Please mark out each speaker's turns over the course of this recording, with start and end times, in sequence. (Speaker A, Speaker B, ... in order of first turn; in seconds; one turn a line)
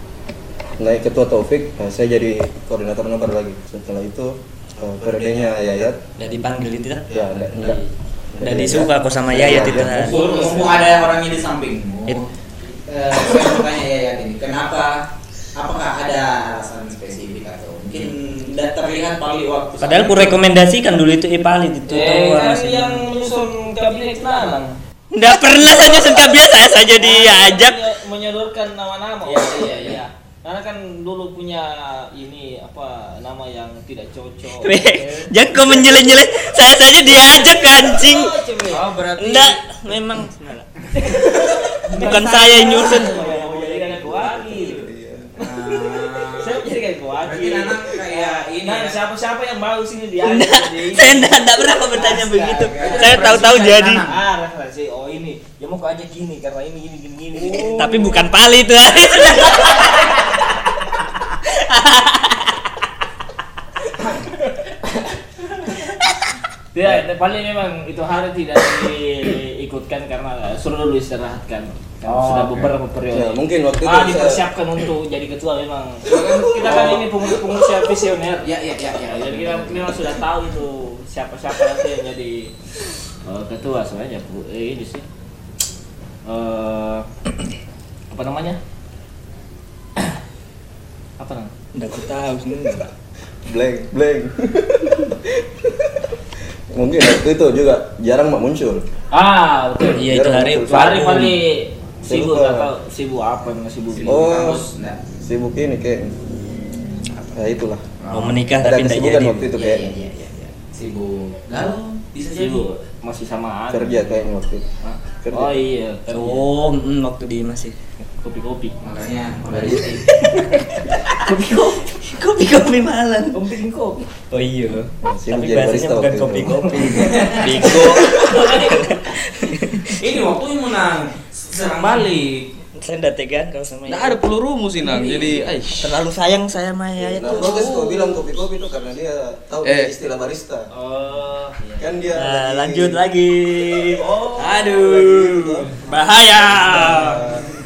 Speaker A: 0.8-6.0
Speaker B: 6.2-10.8
Speaker A: 7.1-7.8
Speaker A: 8.3-10.1
Speaker C: 9.7-15.0
Speaker D: 10.1-10.9
Speaker C: 15.6-20.4
Speaker B: 19.8-23.1
Speaker D: 21.9-24.8
Speaker B: 25.1-27.8
Speaker D: 26.9-35.3
Speaker C: 29.2-30.0
Speaker B: 34.6-38.4
Speaker D: 37.2-38.9
Speaker C: 38.7-39.6
Speaker B: 39.1-40.7
Speaker D: 41.0-44.9
Speaker C: 41.8-44.3
Speaker B: 41.9-43.6
Speaker A: 44.1-45.4
Speaker C: 45.4-46.7
Speaker D: 45.4-58.2
Speaker C: 47.2-49.0
Speaker B: 50.2-54.1
Speaker C: 52.0-54.2
Speaker B: 57.5-60.4
Speaker C: 57.5-58.1
Speaker B: 61.4-62.7
Speaker D: 66.7-78.5
Speaker C: 72.0-72.7
Speaker A: 73.1-74.4
Speaker A: 76.2-77.1
Speaker C: 76.6-76.9
Speaker C: 78.4-80.2
Speaker D: 79.1-82.5
Speaker D: 83.2-85.1
Speaker D: 86.2-87.1
Speaker D: 88.1-88.6
Speaker D: 91.2-91.5
Speaker B: 91.7-92.9
Speaker A: 93.5-96.1
Speaker A: 96.7-98.8
Speaker D: 99.1-100.1
Speaker A: 100.0-101.0
Speaker B: 100.0-101.4
Speaker D: 100.6-104.3
Speaker A: 102.1-102.7
Speaker C: 103.9-105.0
Speaker A: 104.0-104.7
Speaker A: 105.2-106.2
Speaker A: 107.3-107.8
Speaker C: 108.0-108.4
Speaker B: 108.1-109.5
Speaker A: 108.6-110.0
Speaker C: 109.5-112.7
Speaker D: 112.3-114.3
Speaker A: 113.7-114.7
Speaker D: 114.8-116.5
Speaker A: 115.2-115.6
Speaker B: 116.1-117.8
Speaker D: 118.2-118.8
Speaker C: 118.8-120.2
Speaker D: 121.2-122.0
Speaker B: 121.9-123.4
Speaker D: 123.3-124.1
Speaker B: 124.3-130.1
Speaker A: 125.0-127.0
Speaker C: 126.9-127.9
Speaker D: 127.6-129.1
Speaker C: 129.9-132.5
Speaker B: 132.8-134.2
Speaker E: 133.9-135.9
Speaker D: 134.8-135.4
Speaker B: 135.8-137.6
Speaker A: 137.0-140.7
Speaker D: 137.2-138.1
Speaker E: 139.6-139.9
Speaker D: 140.7-142.1
Speaker A: 141.8-143.0
Speaker B: 142.1-147.2
Speaker D: 144.0-144.8
Speaker A: 144.6-145.7
Speaker A: 146.5-147.5